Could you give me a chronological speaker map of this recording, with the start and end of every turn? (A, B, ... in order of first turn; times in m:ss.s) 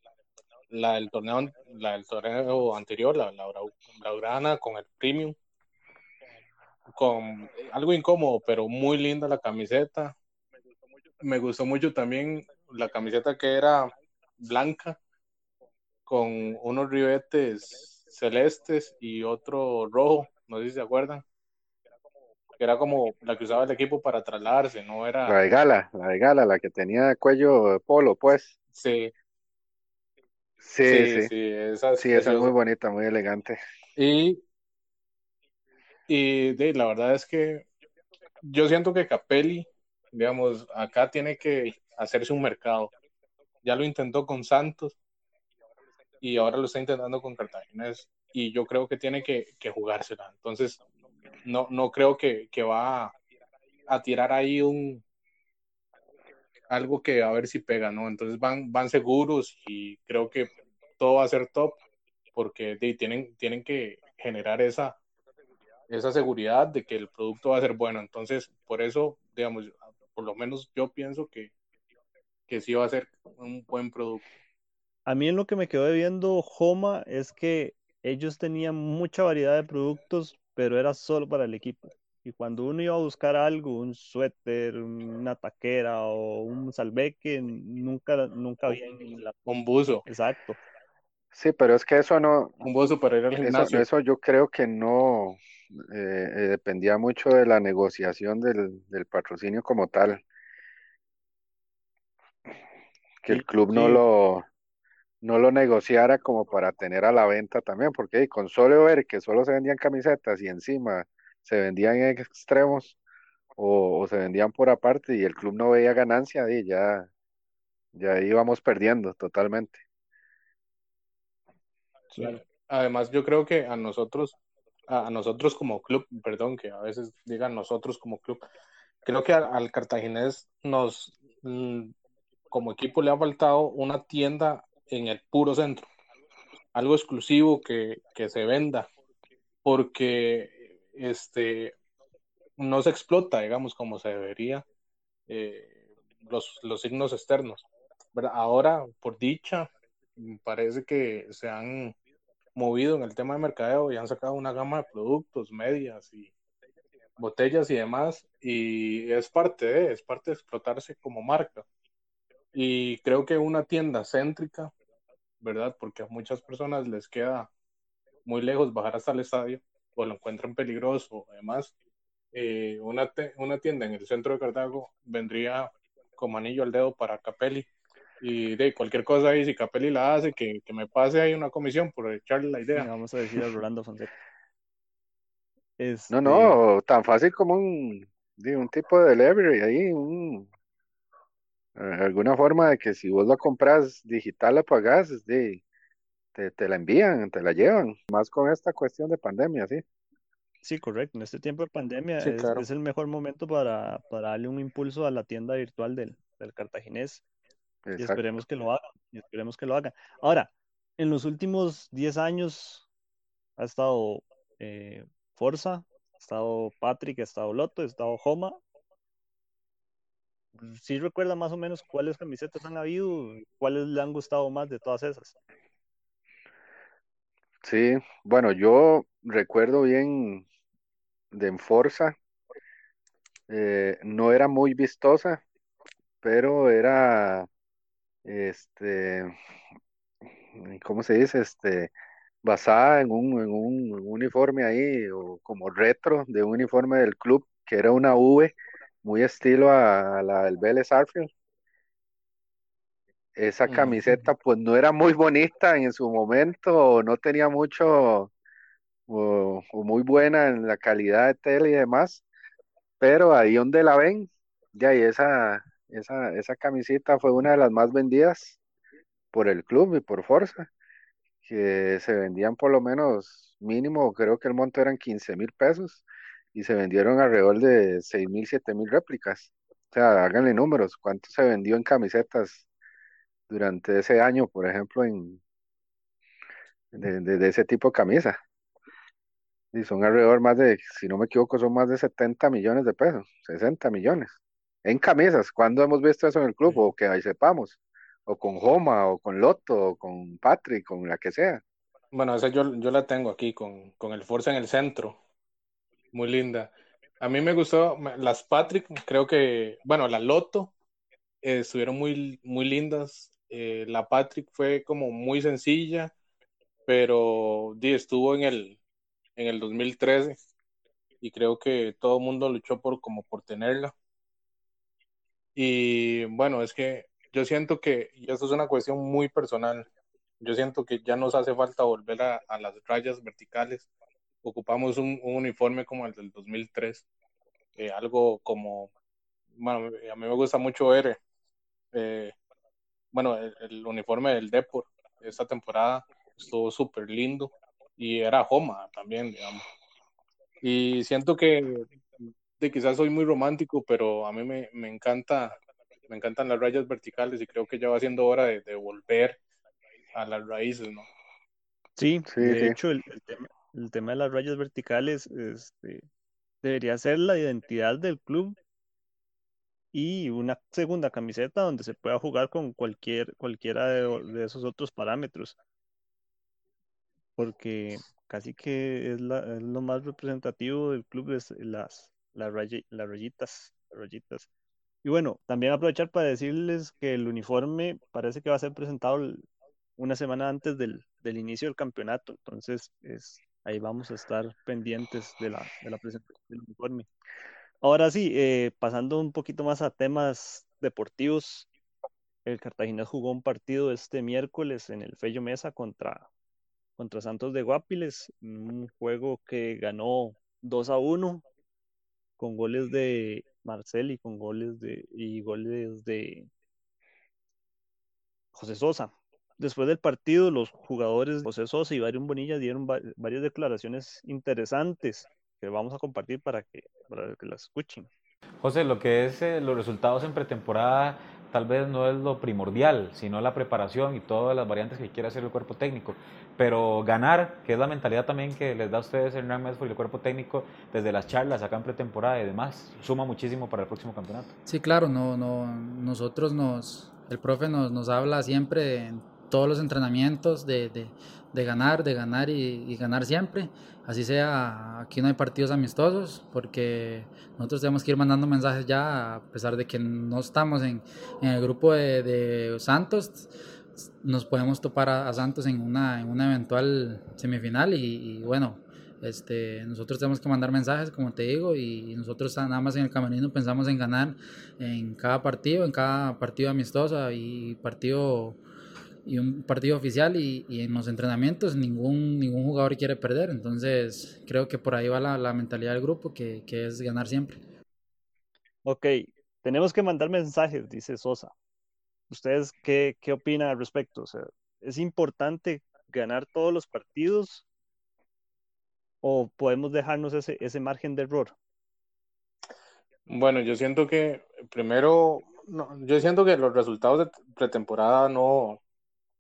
0:00.7-0:05.4 A
0:06.9-0:10.1 A
0:11.2-0:13.9 A
0:14.4-0:15.0 A
0:16.1-0:21.2 A
0:22.6-0:25.4 A
0:25.2-0:28.5 B
0:28.8-0:29.1 A
0:30.6-0:31.3 B
0:30.8-0:32.5 A
0:32.0-0:33.6 B
0:34.0-0:34.4 A
0:36.1-0:37.7 A
0:38.4-0:42.9 A
0:43.6-0:45.0 A
0:46.2-0:50.8 A
0:51.4-0:53.1 A
0:53.9-0:55.0 A
0:56.7-1:01.8 A
1:02.3-1:05.0 A
1:05.9-1:11.5 A
1:12.5-1:14.3 A
1:15.1-1:29.3 C
1:29.5-1:30.0 A
1:30.1-1:30.6 C
1:31.3-1:32.7 B
1:32.6-1:33.8 A
1:33.4-1:40.2 B
1:43.2-1:44.5 B
1:43.3-1:44.0 C
1:45.2-1:53.0 B
1:53.6-1:57.1 B
1:57.9-1:59.8 B
2:02.1-2:04.4 A
2:04.9-2:08.4 A
2:09.0-2:11.9 A
2:12.5-2:15.9 A
2:16.8-2:18.9 A
2:19.6-2:21.7 A
2:22.6-2:24.6 A
2:25.3-2:32.0 A
2:32.6-2:36.3 A
2:37.2-2:41.7 A
2:42.5-2:44.7 A
2:45.4-2:47.5 A
2:48.2-2:51.7 A
2:52.3-2:57.7 A
2:58.2-3:02.9 A
3:02.8-3:04.1 C
3:05.8-3:06.6 C
3:06.1-3:10.5 B
3:11.8-3:15.6 B
3:16.4-3:19.8 B
3:20.6-3:27.2 C
3:22.3-3:22.6 B
3:27.8-3:28.2 B
3:28.0-3:32.9 C
3:33.6-3:38.6 C
3:40.6-3:45.4 C
3:47.6-3:50.4 B
3:51.3-3:52.2 B
3:53.5-3:55.4 B
3:56.2-3:57.5 B
3:58.2-3:59.3 B
4:00.5-4:01.9 B
4:02.4-4:11.3 B
4:13.4-4:18.3 B
4:13.7-4:14.0 A
4:19.1-4:22.2 B
4:23.0-4:28.6 B
4:29.3-4:30.7 B
4:31.4-4:42.6 B
4:43.5-4:45.4 B
4:46.9-4:48.4 B
4:49.7-5:01.6 B
5:02.1-5:05.2 A
5:06.1-5:10.7 A
5:11.4-5:16.1 A
5:16.9-5:18.8 A
5:19.4-5:20.4 A
5:21.2-5:23.9 A
5:25.6-5:29.9 A
5:30.4-5:33.9 A
5:34.4-5:37.0 A
5:37.8-5:38.9 A
5:39.6-5:41.2 A
5:41.9-5:42.3 A
5:43.1-5:49.6 A
5:50.6-5:55.6 A
5:56.1-5:59.4 A
6:00.1-6:01.1 A
6:02.0-6:06.0 C
6:02.3-6:02.8 B
6:06.6-6:08.6 C
6:09.9-6:15.6 C
6:17.4-6:24.5 C
6:25.0-6:29.5 C
6:30.0-6:37.1 C
6:37.8-6:41.7 C
6:42.4-6:46.3 C
6:47.0-6:51.4 C
6:52.4-6:56.5 C
6:58.5-7:08.1 C
7:08.6-7:24.5 D
7:24.7-7:43.5 E
7:44.2-7:58.6 E
7:59.2-8:07.6 E
8:08.8-8:11.5 C
8:12.3-8:17.6 C
8:19.2-8:21.5 C
8:23.3-8:28.8 A